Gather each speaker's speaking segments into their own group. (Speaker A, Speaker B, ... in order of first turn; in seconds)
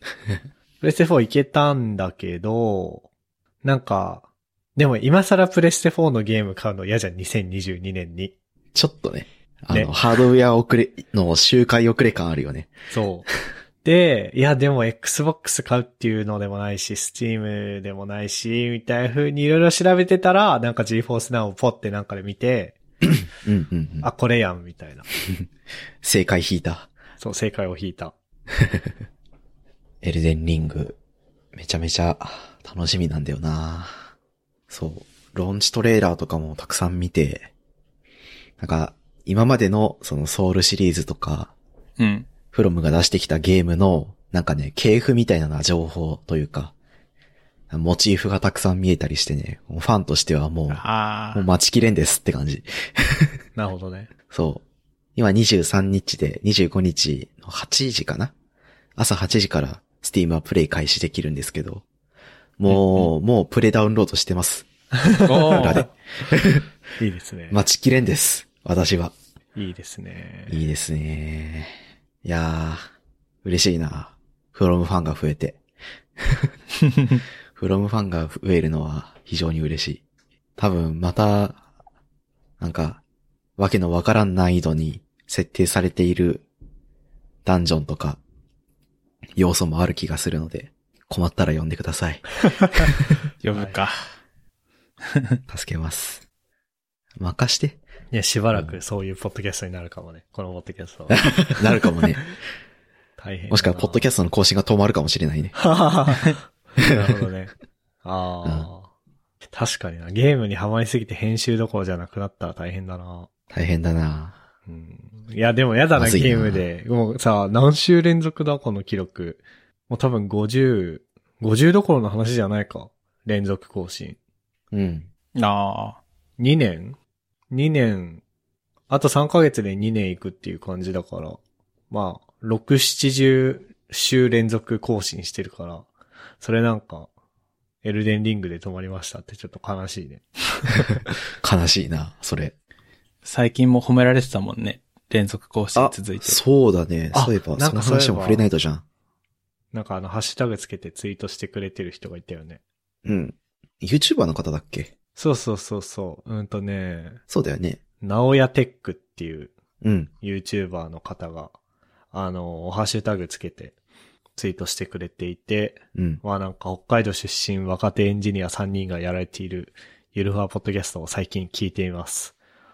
Speaker A: 0.8-3.1, 3.6-8.3, 12.9-13.3, 13.8-22.8, 24.0-25.1, 27.2-28.1, 53.6-54.1, 65.0-65.9, 67.0-67.6, 69.6-70.6, 93.5-93.8, 98.1-101.6, 103.2-104.0, 105.6-107.5, 108.0-108.9, 109.5-113.3, 114.7-124.2, 126.4-127.0, 127.5-128.2, 128.9-135.9, 136.4-137.1, 137.8-140.9, 147.1-148.4, 149.7-152.6, 155.2-157.2, 158.0-159.5, 160.2-161.5, 162.1-163.8, 164.4-172.3
Speaker B: 8.7-12.7, 23.4-24.1, 26.0-26.9, 28.6-29.0, 30.0-31.0, 31.5-34.1, 34.7-37.5, 38.6-41.5, 42.5-46.7, 47.7-53.4, 54.3-54.6, 55.2-58.3, 59.0-61.8, 62.6-64.7, 65.5-66.7, 67.5-69.1, 70.5-72.8, 73.4-75.6, 76.2-76.5, 77.5-80.0, 80.6-81.6, 82.6-83.0, 83.6-86.5, 87.5-88.2, 89.4-93.0, 95.5-96.2, 97.2-97.8, 101.3-102.3, 103.5-105.5, 113.5-114.4, 116.0-116.6, 124.7-125.1, 141.4-142.6, 145.8-148.8, 153.1-154.9, 157.3-157.8, 159.8-160.1, 165.9-166.2
Speaker C: 42.0-42.3, 50.7-51.5, 62.7-63.1, 65.3-65.8, 93.4-94.0, 95.1-95.4, 125.4-126.0, 143.2-146.4